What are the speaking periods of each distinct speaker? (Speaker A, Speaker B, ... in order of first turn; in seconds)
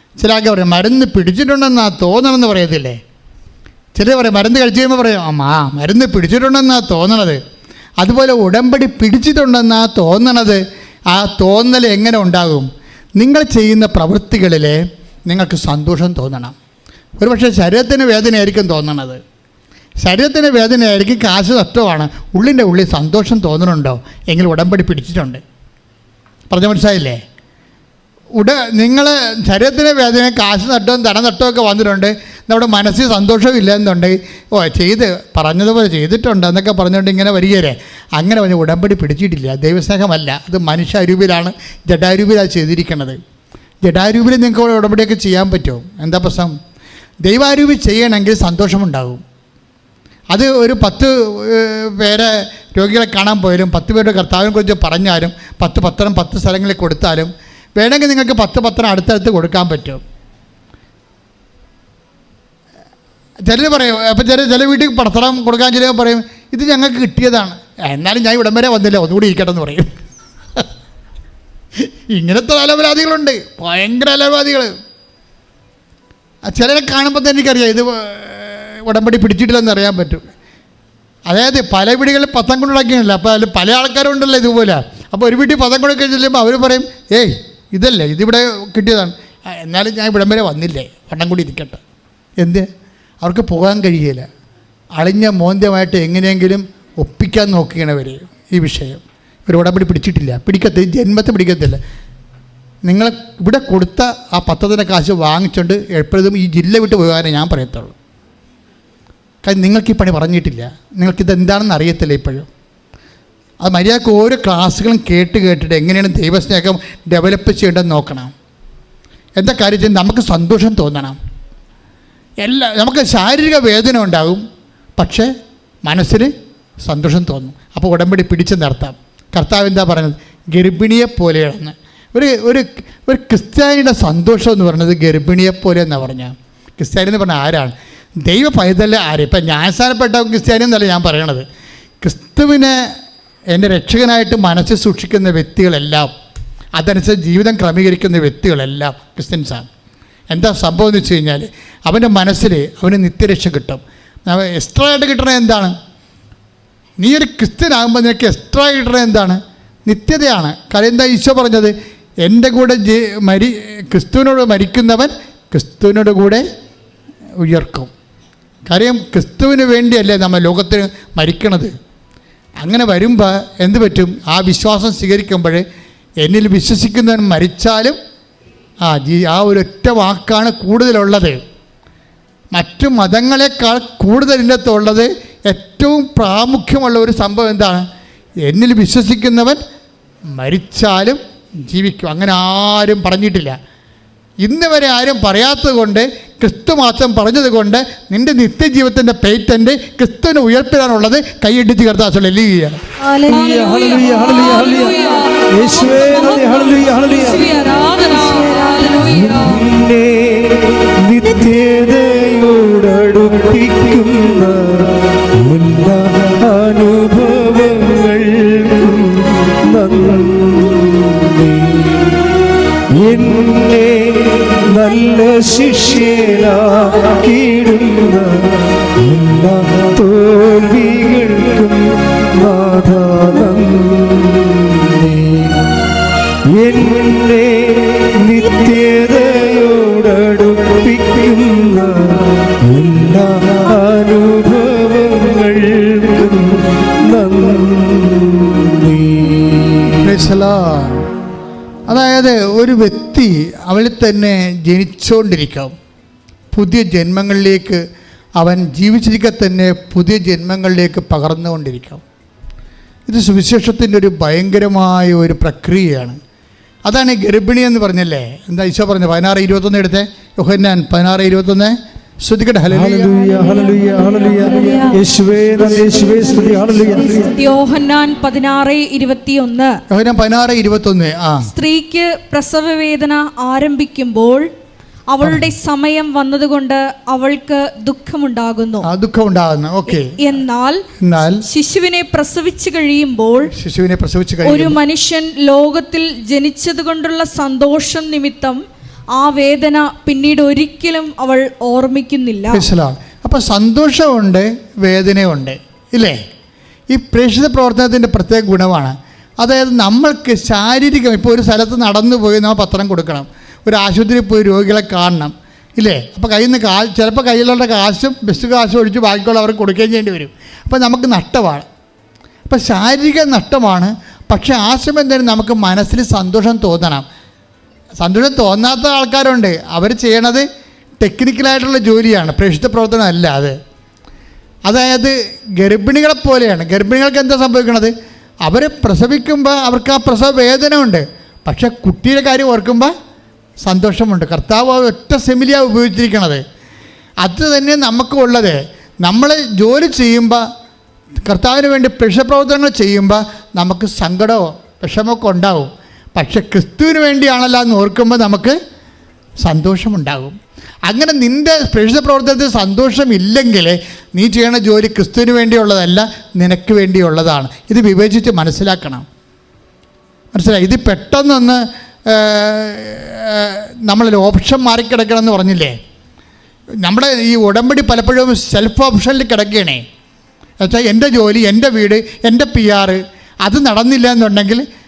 Speaker A: 0.2-3.0, 3.9-7.4, 8.0-16.6, 17.2-19.2, 20.0-25.4, 26.5-27.2, 28.4-43.2, 43.8-46.5, 47.2-49.2, 50.3-60.0, 63.5-69.9, 71.8-74.7, 76.5-80.3, 81.3-91.8, 92.4-92.7, 93.2-94.3, 95.0-101.8, 102.8-108.0, 109.4-112.5, 113.6-118.3, 119.4-121.2, 122.4-124.4, 125.0-125.3, 125.8-126.3, 126.8-137.7, 138.2-141.4, 142.0-142.8, 143.5-146.1, 146.8-149.7, 150.3-155.7, 157.0-166.4, 167.4-167.9, 168.7-171.7, 172.6-175.6, 176.2-178.0, 178.8-181.4, 182.5-187.8, 188.4-189.6, 190.3-193.6, 194.4-202.8, 250.0-251.1, 251.9-255.7, 256.5-257.8, 258.4-262.0, 263.1-266.2, 266.9-273.2, 279.9-281.5, 288.8-290.2, 291.0-291.4, 293.5-294.8, 302.5-306.2, 306.9-321.7, 322.5-327.1, 328.0-330.5, 331.0-333.6, 334.7-337.9, 338.4-342.9, 343.6-346.4, 347.2-350.4, 351.3-358.6, 359.4-360.4, 360.9-369.1, 370.3-375.8, 376.8-379.8, 380.6-384.6
Speaker B: 203.0-209.6, 273.3-275.0, 276.4-279.8, 281.4-284.5, 285.1-288.9, 289.9-290.8, 291.4-293.5, 294.4-298.6, 299.1-302.6
Speaker C: 203.3-205.0, 205.5-207.4, 209.0-222.3, 222.9-235.7, 236.4-250.0, 272.9-277.3